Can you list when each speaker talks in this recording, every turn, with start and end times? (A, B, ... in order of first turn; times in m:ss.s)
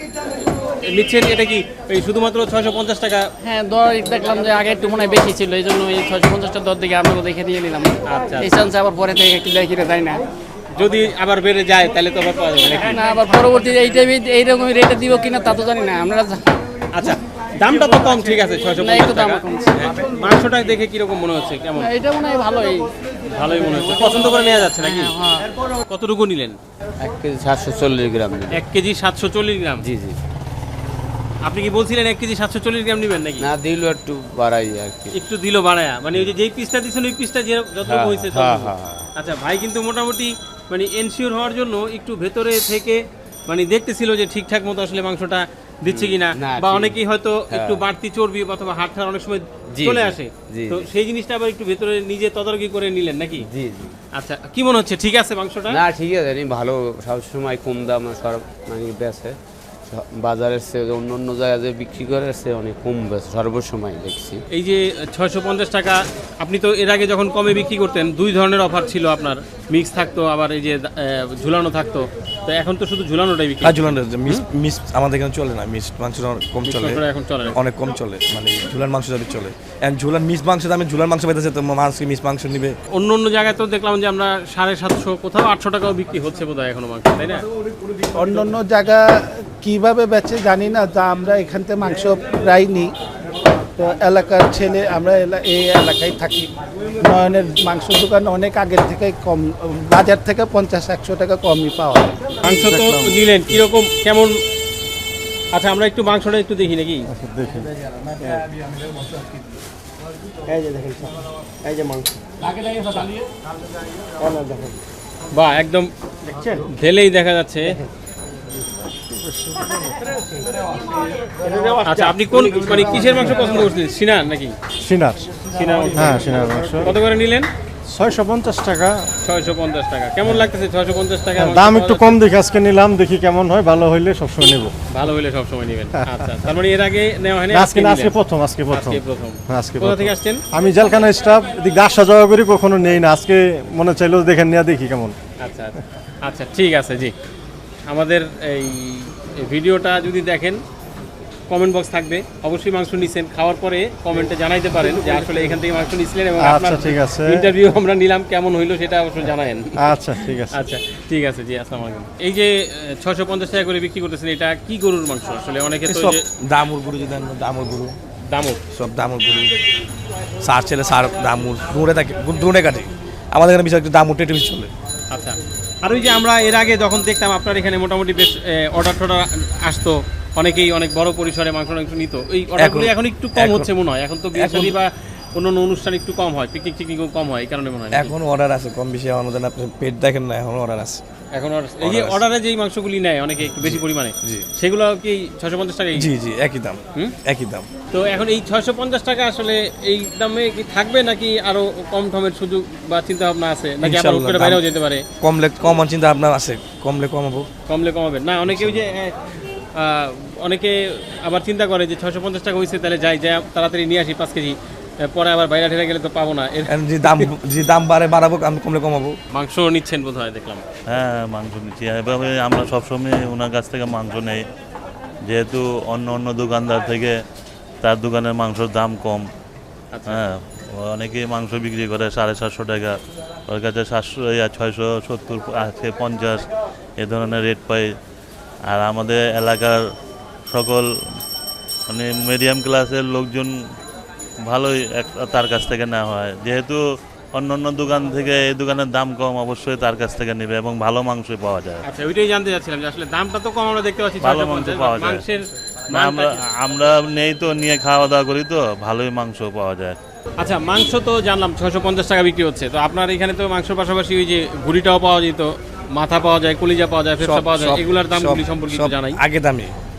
0:00.6-0:03.3 A
0:03.4-0:10.2 B
0:08.1-0:08.6 A
0:10.8-0:13.0 A
0:12.9-0:16.6 B
0:16.9-0:21.9 A
0:18.8-0:19.9 B
0:21.8-0:22.9 B
0:23.3-0:25.1 A
0:24.8-0:25.5 B
0:25.9-0:26.6 A
0:27.0-0:28.6 C
0:28.5-0:29.8 A
0:29.8-0:30.2 C
0:31.4-0:33.5 A
0:33.4-0:35.2 C
0:35.1-0:53.4 A
0:37.8-0:39.1 C
0:45.9-0:47.0 C
0:47.5-0:47.8 C
0:49.7-0:50.9 C
0:53.4-0:53.9 C
0:54.2-0:55.8 A
0:55.7-0:59.4 C
0:59.9-1:04.4 C
1:04.5-1:14.4 A
1:13.6-1:22.8 D
1:16.6-1:17.6 A
1:22.9-1:27.4 A
1:28.1-1:29.0 E
1:29.6-1:32.9 E
1:33.8-1:36.5 E
1:37.0-1:42.2 E
1:42.4-1:44.3 A
1:45.5-1:47.1 A
1:47.1-1:47.7 F
1:55.3-1:55.9 A
1:56.6-1:57.7 A
2:01.8-2:04.5 A
2:03.2-2:03.6 F
2:04.8-2:05.3 F
2:05.5-2:06.2 A
2:05.9-2:07.0 F
2:06.8-2:07.5 A
2:07.9-2:09.1 F
2:09.2-2:12.2 A
2:11.4-2:14.7 F
2:14.9-2:18.2 A
2:16.0-2:16.2 F
2:17.5-2:25.2 F
2:18.7-2:20.4 A
2:25.4-2:27.1 A
2:27.9-2:30.6 A
2:31.5-2:39.7 A
2:36.4-2:37.5 F
2:39.8-2:40.6 F
2:40.5-2:46.2 A
2:45.8-2:47.9 D
2:48.3-2:48.6 A
2:48.7-2:49.5 D
2:50.4-2:54.7 D
2:55.1-3:08.1 A
3:02.6-3:03.7 D
3:04.3-3:04.8 D
3:07.9-3:11.0 D
3:11.3-3:16.1 A
3:11.8-3:12.2 D
3:13.6-3:14.5 D
3:16.0-3:17.7 D
3:17.9-3:25.0 A
3:23.8-3:24.6 D
3:25.2-3:27.5 D
3:27.7-3:29.1 A
3:28.5-3:28.8 D
3:29.8-3:37.3 A
3:36.7-3:39.2 D
3:39.3-3:40.6 A
3:40.9-3:44.4 G
3:45.2-3:47.1 G
3:47.8-3:49.2 G
3:49.9-3:50.2 A
3:50.1-3:53.0 G
3:53.5-3:57.8 G
3:58.7-3:59.8 G
4:00.5-4:00.8 G
4:01.9-4:03.5 G
4:04.4-4:06.8 G
4:07.3-4:11.8 G
4:11.8-4:16.4 A
4:14.2-4:15.2 G
4:15.9-4:20.0 G
4:20.4-4:29.2 A
4:27.2-4:29.7 D